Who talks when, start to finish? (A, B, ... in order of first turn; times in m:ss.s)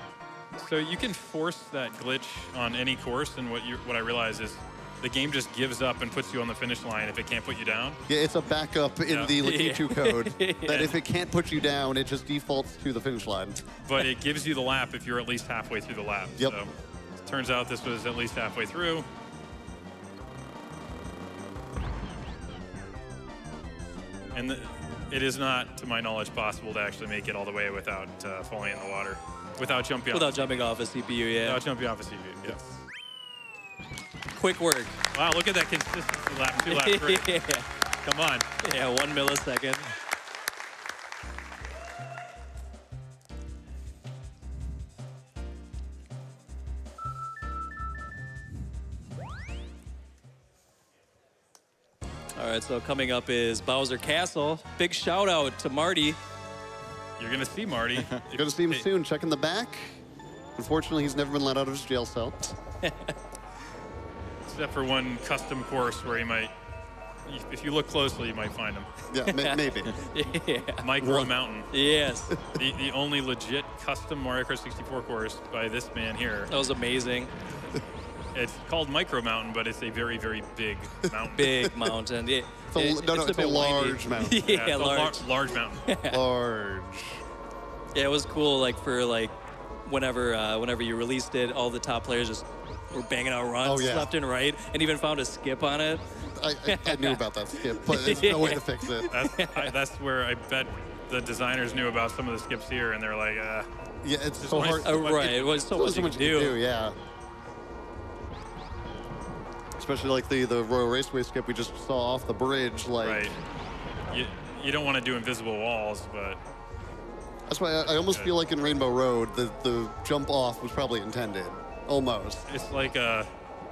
0:00.6-0:08.0 A
0:08.1-0:13.6 B
0:09.1-0:09.3 A
0:09.4-0:11.0 C
0:13.8-0:16.7 A
0:17.2-0:19.1 A
0:24.3-0:30.6 A
0:30.1-0:31.6 C
0:31.4-0:32.7 A
0:34.4-0:35.0 C
0:35.1-0:37.5 A
0:36.6-0:37.7 C
0:38.0-0:38.5 A
0:38.6-0:39.9 C
0:52.4-0:56.2 C
0:57.2-0:58.8 A
0:58.3-1:00.0 B
1:00.6-1:02.6 B
1:02.8-1:03.1 C
1:04.4-1:06.5 A
1:07.3-1:08.9 A
1:09.1-1:10.0 B
1:09.3-1:10.8 C
1:10.8-1:11.7 A
1:11.0-1:11.3 B
1:11.7-1:12.3 C
1:12.3-1:12.6 B
1:12.5-1:16.5 A
1:16.5-1:17.3 C
1:18.3-1:21.7 A
1:21.3-1:25.2 C
1:22.7-1:24.5 B
1:24.4-1:25.8 A
1:25.8-1:26.2 C
1:26.1-1:27.2 B
1:27.9-1:36.0 C
1:33.6-1:34.1 B
1:36.3-1:39.1 B
1:36.6-1:39.7 C
1:39.1-1:43.7 A
1:44.0-1:45.1 B
1:44.4-1:45.8 A
1:44.8-1:46.6 C
1:45.7-1:47.0 B
1:49.8-1:53.3 B
1:53.0-1:53.4 A
1:54.1-1:56.4 A
1:57.5-2:02.4 B
2:02.5-2:03.3 A